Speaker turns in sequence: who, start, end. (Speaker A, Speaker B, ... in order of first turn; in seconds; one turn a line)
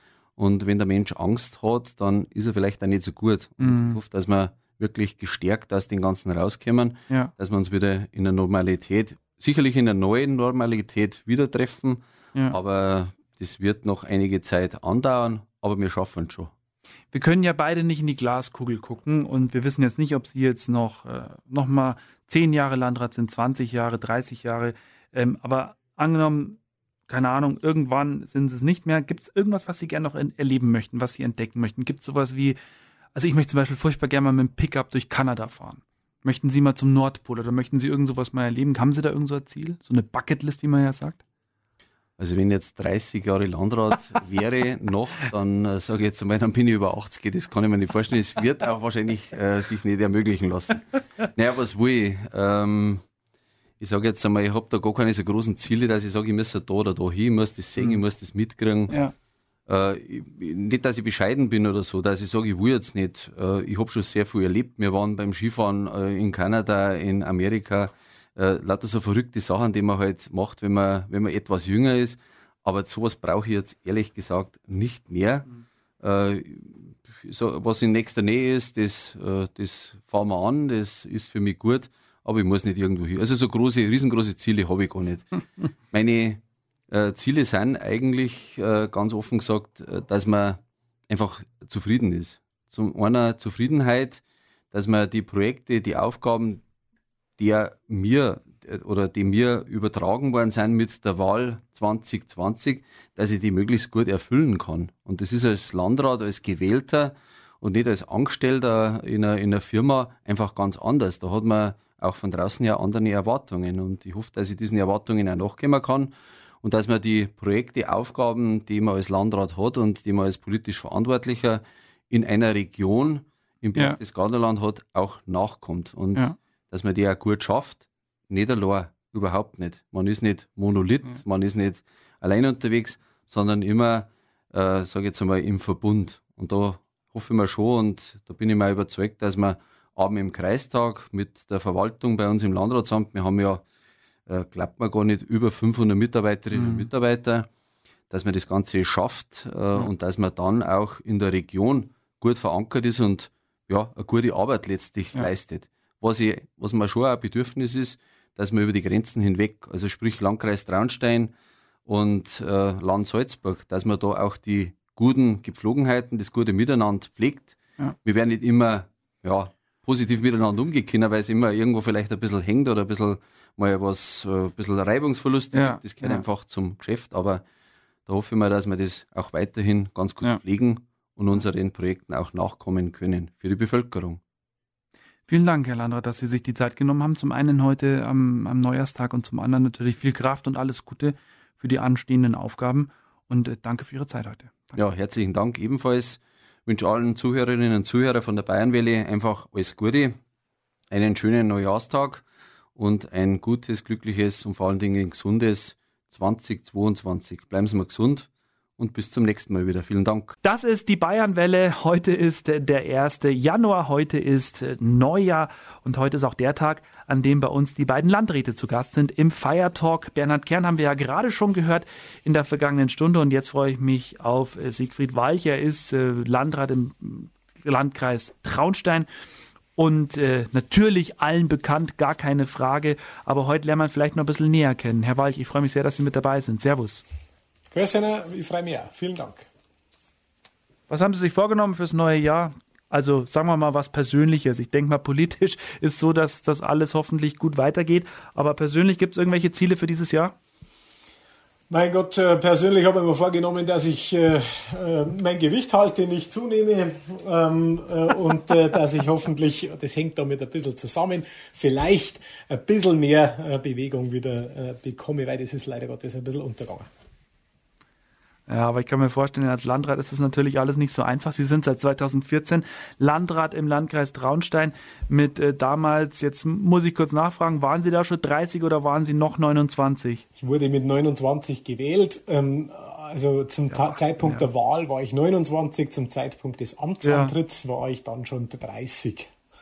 Speaker A: 0.4-16.5
Speaker B: 3.6-4.0
Speaker B: 17.1-32.6
Speaker B: 33.1-41.2
Speaker A: 42.2-53.0
Speaker A: 53.8-59.0
Speaker B: 58.9-59.1
Speaker A: 59.7-75.5
Speaker A: 76.0-85.3
Speaker A: 85.9-86.4
Speaker A: 86.9-94.2
Speaker A: 94.7-96.6
Speaker A: 97.4-143.6
Speaker A: 144.3-147.5
Speaker B: 146.5-146.9
Speaker A: 148.1-161.3
Speaker A: 161.9-177.4
Speaker B: 175.5-176.2
Speaker A: 178.1-184.2
Speaker B: 185.3-194.8
Speaker A: 194.8-200.2
Speaker A: 200.9-202.2
Speaker A: 202.8-210.3
Speaker B: 210.4-229.1
Speaker B: 229.8-237.0
Speaker C: 237.7-239.5
Speaker B: 240.9-250.4
Speaker C: 251.7-266.9
Speaker B: 268.5-280.2
Speaker C: 280.4-289.3
Speaker B: 283.7-284.5
Speaker B: 287.0-287.4